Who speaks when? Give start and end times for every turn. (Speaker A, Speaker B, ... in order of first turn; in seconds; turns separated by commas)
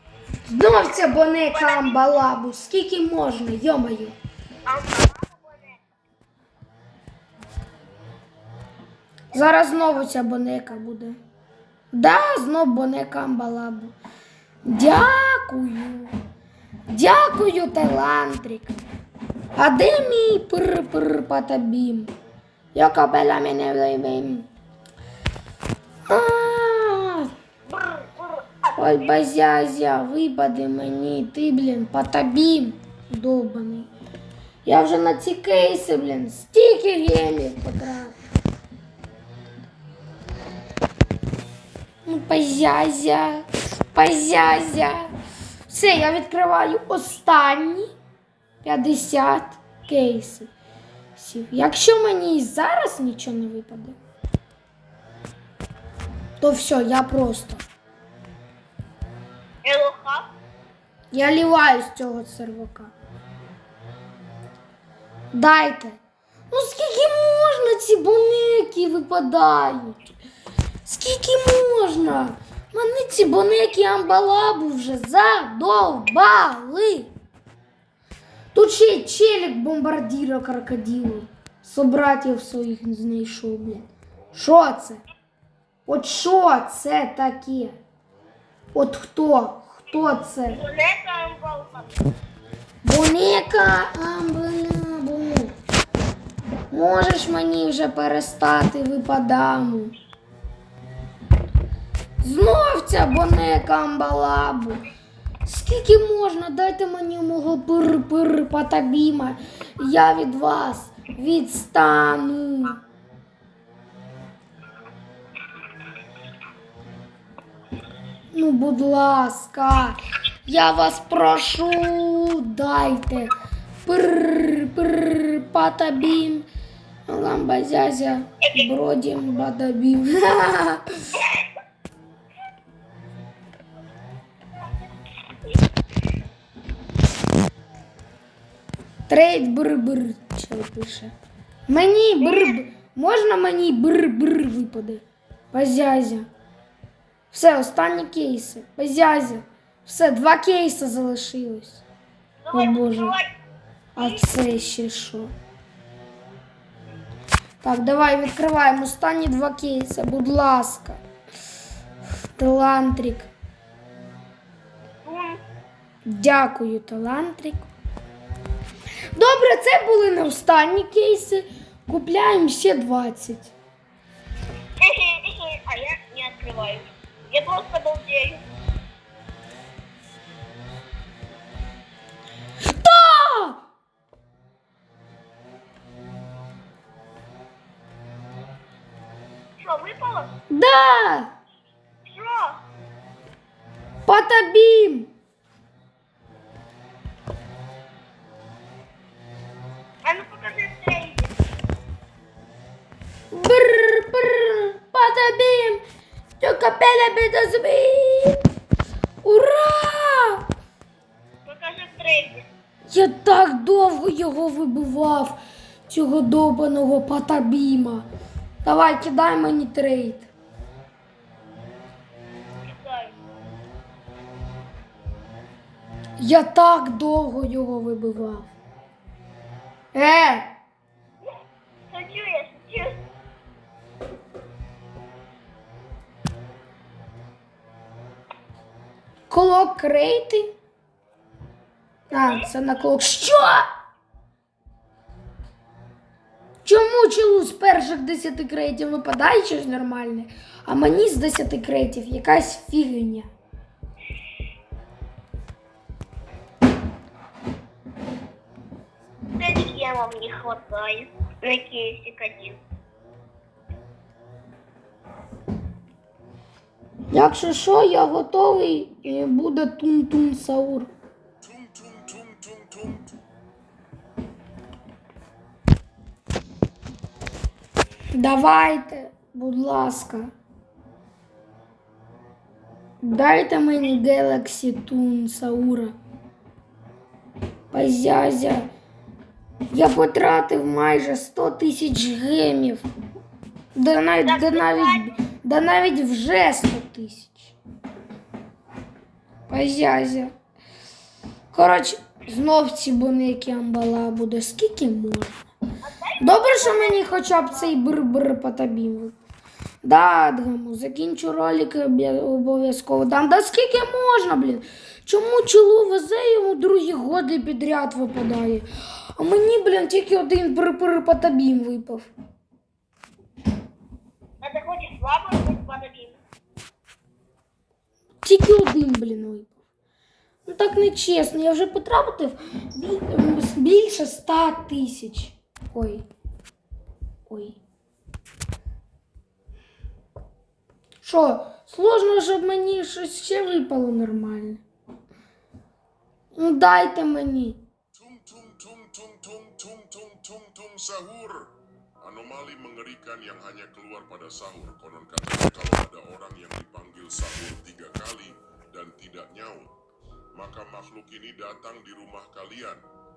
Speaker A: 0.5-4.2, Speaker B: 1.5-2.0, Speaker B: 4.7-5.8, Speaker A: 9.3-11.2, Speaker B: 9.3-9.8, Speaker A: 11.9-13.9, Speaker A: 14.7-16.1, Speaker A: 16.9-18.8, Speaker A: 19.6-22.1, Speaker A: 22.7-24.5, Speaker A: 26.1-27.3, Speaker B: 27.7-29.2, Speaker A: 28.8-33.9, Speaker A: 34.6-38.2, Speaker A: 42.0-45.1, Speaker A: 45.7-47.9, Speaker A: 48.6-50.5, Speaker A: 51.2-54.0, Speaker A: 56.4-57.6, Speaker B: 59.6-60.3, Speaker A: 61.1-62.9, Speaker A: 65.3-66.0, Speaker A: 66.5-70.1, Speaker A: 70.8-77.1, Speaker A: 78.5-85.0, Speaker A: 85.9-87.8, Speaker A: 88.7-90.6, Speaker B: 90.5-92.0, Speaker A: 92.8-95.5, Speaker A: 96.7-99.9, Speaker A: 102.2-104.8, Speaker A: 105.5-112.8, Speaker A: 118.3-123.3, Speaker A: 123.8-126.5, Speaker A: 127.1-130.8, Speaker A: 139.1-141.1, Speaker A: 141.7-146.3, Speaker B: 142.2-142.6, Speaker A: 147.3-151.8, Speaker B: 152.4-153.3, Speaker A: 152.5-153.2, Speaker B: 154.0-154.2, Speaker A: 154.0-155.3, Speaker A: 157.6-161.0, Speaker A: 162.3-163.3, Speaker B: 165.0-165.4, Speaker A: 166.1-167.7, Speaker A: 169.2-173.5, Speaker B: 174.8-178.4, Speaker A: 182.6-183.6, Speaker B: 189.6-190.3, Speaker A: 190.5-191.3, Speaker B: 192.0-192.6, Speaker A: 194.1-195.1, Speaker B: 200.0-201.3, Speaker A: 203.3-205.8, Speaker A: 206.4-208.4, Speaker A: 209.2-210.4, Speaker B: 211.4-212.5, Speaker A: 212.9-218.1, Speaker A: 218.6-220.3, Speaker B: 222.7-223.2, Speaker A: 226.2-228.5, Speaker A: 229.9-230.5, Speaker B: 231.9-233.0, Speaker A: 239.3-240.5, Speaker A: 242.1-243.7, Speaker B: 242.1-242.5, Speaker A: 246.6-253.3, Speaker B: 259.4-262.6, Speaker A: 267.1-270.9, Speaker C: 271.4-273.2, Speaker A: 278.2-280.3, Speaker A: 283.0-285.9, Speaker A: 287.7-288.7, Speaker A: 289.7-292.9, Speaker A: 293.8-297.6, Speaker B: 294.2-295.1, Speaker A: 299.5-300.3, Speaker A: 301.5-305.5, Speaker B: 305.8-307.7, Speaker A: 306.2-309.2, Speaker A: 309.8-322.1, Speaker B: 324.4-326.2, Speaker A: 328.2-329.6, Speaker A: 330.5-336.1, Speaker A: 337.3-337.6, Speaker A: 341.0-344.6, Speaker A: 346.4-347.6, Speaker C: 347.9-351.5, Speaker C: 352.0-359.7, Speaker C: 360.4-362.8